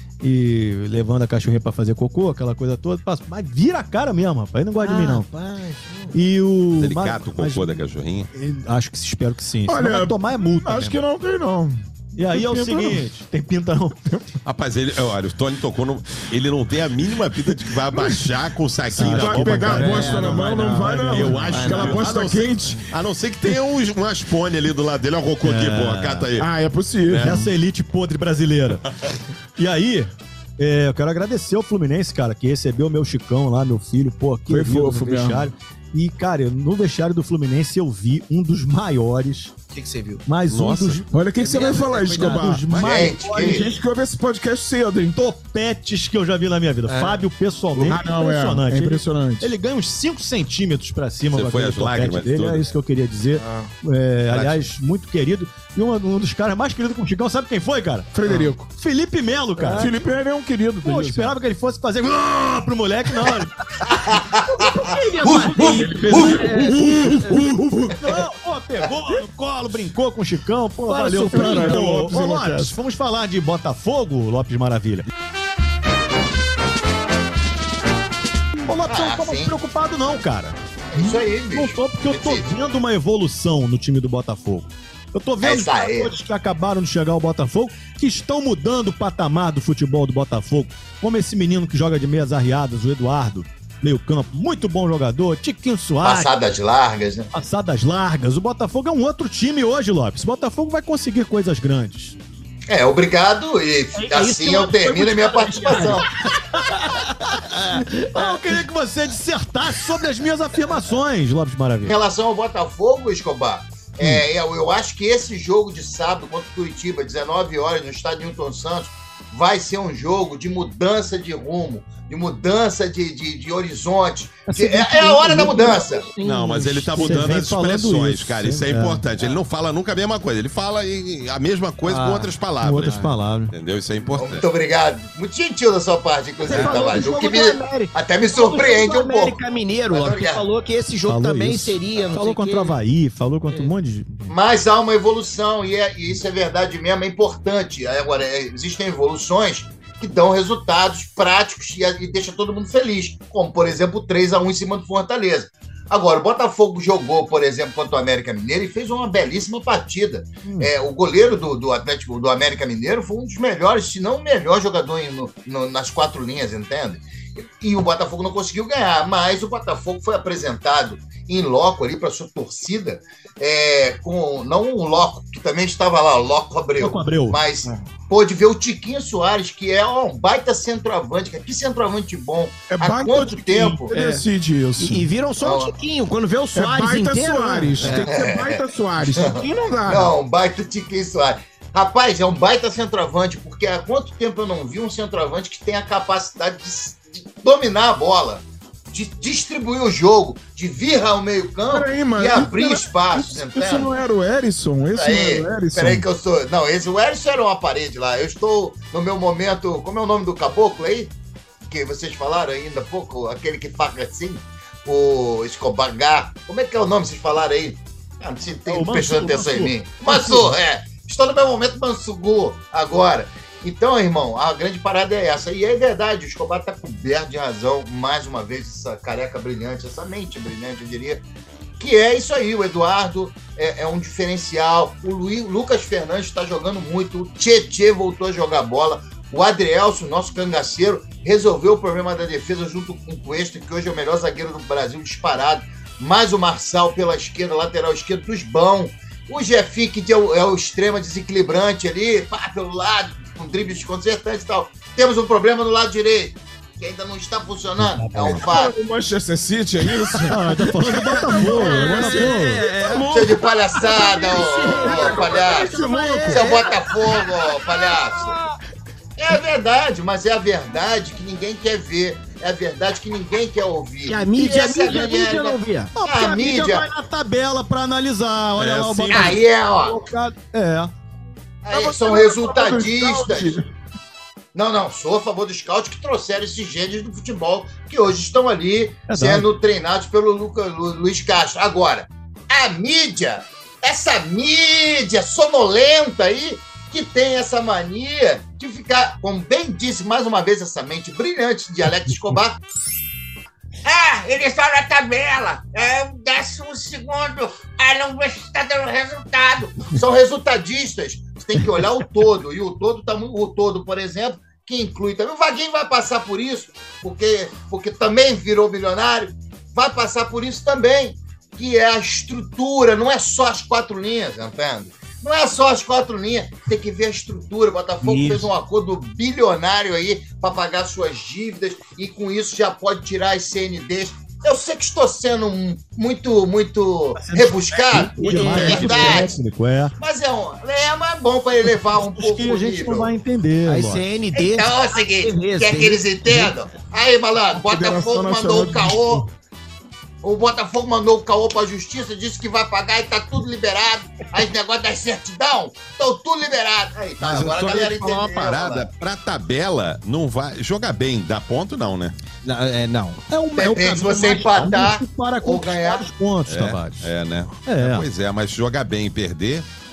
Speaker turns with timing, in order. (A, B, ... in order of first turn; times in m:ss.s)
0:00.2-0:05.2 A
0:04.8-0:06.1 B
0:06.1-0:07.8 A
0:06.7-0:08.3 C
0:08.3-0:11.0 A
0:09.7-0:13.0 D
0:12.1-0:14.0 A
0:14.4-0:20.5 C
0:18.9-0:21.8 A
0:18.9-0:22.8 D
0:19.7-0:22.3 B
0:21.0-0:26.5 C
0:25.4-0:26.3 A
0:26.4-0:27.5 D
0:27.1-0:27.4 C
0:27.2-0:28.9 A
0:29.6-0:39.5 A
0:34.5-0:35.5 D
0:39.7-0:40.2 B
0:40.2-0:41.1 A
0:40.5-0:41.0 C
0:41.1-0:45.2 D
0:41.4-0:42.6 B
0:42.2-0:43.7 A
0:42.7-0:43.2 C
0:42.8-0:43.7 E
0:45.2-0:58.1 A
0:46.9-0:47.2 B
0:47.8-0:49.5 D
0:51.3-0:52.7 C
0:53.4-0:53.7 B
0:54.3-0:54.7 C
0:58.1-0:58.7 D
0:58.6-0:59.9 A
0:59.7-1:01.4 D
1:00.8-1:04.2 A
1:03.9-1:06.5 E
1:04.4-1:07.4 B
1:05.6-1:08.2 D
1:05.8-1:06.7 A
1:08.0-1:15.1 A
1:10.9-1:12.8 D
1:11.1-1:11.8 B
1:18.6-1:36.3 A
1:18.9-1:19.6 E
1:20.9-1:22.5 E
1:25.4-1:26.1 E
1:36.0-1:37.3 E
1:37.3-1:42.1 A
1:42.7-1:46.1 E
1:43.9-1:48.6 B
1:46.6-1:52.0 A
1:51.8-2:06.0 E
1:54.0-1:54.2 A
2:04.5-2:07.3 B
2:06.2-2:14.4 C
2:07.0-2:09.0 A
2:11.8-2:13.1 B
2:12.6-2:13.5 A
2:14.1-2:19.4 E
2:16.4-2:22.7 B
2:19.9-2:20.4 E
2:21.0-2:24.3 A
2:24.3-3:03.9 E
2:40.4-2:40.7 A
2:56.8-2:57.4 A
3:02.7-3:05.1 D
3:03.9-3:04.2 B
3:04.8-3:08.1 B
3:05.4-3:05.7 E
3:06.5-3:10.1 D
3:08.0-3:23.9 E
3:21.7-3:26.0 D
3:24.9-3:31.1 E
3:31.6-3:51.2 E
3:38.6-3:40.5 A
3:51.8-4:18.7 E
4:17.8-4:18.5 A
4:18.2-4:20.4 D
4:20.1-4:23.1 B
4:20.2-4:22.6 A
4:20.9-4:26.6 D
4:23.1-4:25.8 E
4:23.8-4:27.1 B
4:26.3-4:28.4 E
4:29.2-4:36.9 E
4:34.1-4:36.0 B
4:35.9-4:40.9 A
4:38.6-4:39.4 C
4:39.1-4:40.0 E
4:41.6-4:43.6 E
4:41.7-4:43.7 D
4:44.5-5:02.6 E
4:49.1-4:49.5 A
5:03.8-5:39.4 E
5:28.0-5:28.5 A
5:37.2-5:39.9 A
5:38.2-5:39.2 B
5:38.3-5:38.6 D
5:40.0-5:43.1 E
5:41.8-5:44.0 A
5:43.6-5:46.5 B
5:44.3-5:49.2 E
5:47.5-5:49.3 D
5:50.2-5:58.9 E
5:57.2-6:02.1 C
6:02.4-6:03.2 B
6:03.3-6:07.1 A
6:03.6-6:06.1 E
6:06.4-6:09.6 C
6:07.6-6:08.1 A